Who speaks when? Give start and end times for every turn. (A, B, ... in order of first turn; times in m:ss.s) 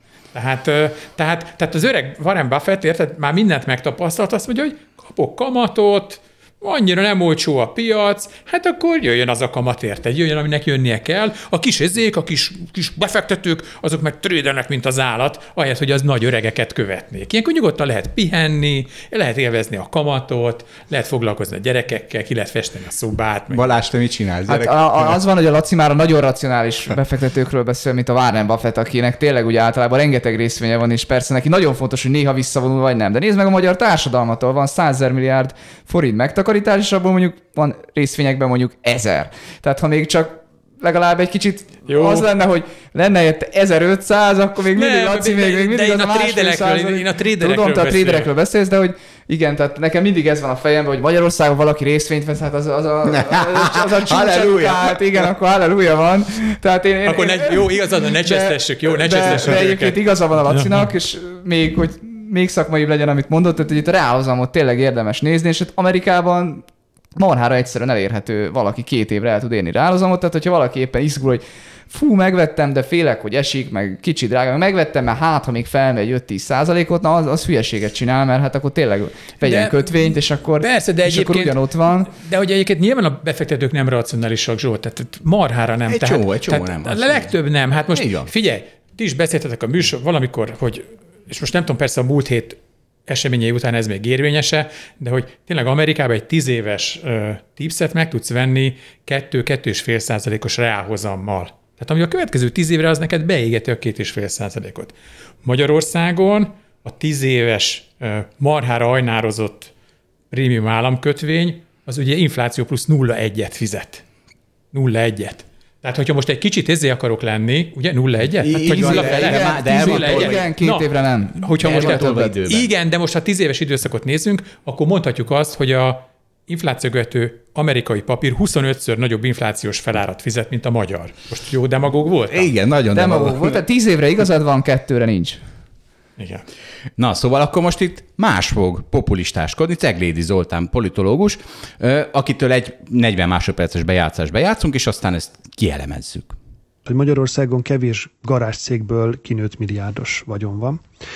0:00.3-0:23.7 A
0:23.5-0:25.2 B
0:24.5-1:22.1 C
0:41.9-0:42.2 A
0:44.7-0:48.3 A
0:53.1-0:55.0 B
0:57.0-1:00.9 A
1:19.4-1:49.7 A
1:25.9-1:27.3 B
1:27.9-1:28.3 B
1:50.3-1:54.0 A
1:54.7-2:00.9 A
1:58.4-2:00.5 B
1:58.7-2:02.3 C
2:01.4-2:12.5 A
2:01.6-2:02.7 B
2:12.3-2:13.6 B
2:12.9-2:15.4 C
2:16.2-2:16.4 A
2:17.0-2:26.4 B
2:26.8-2:30.8 D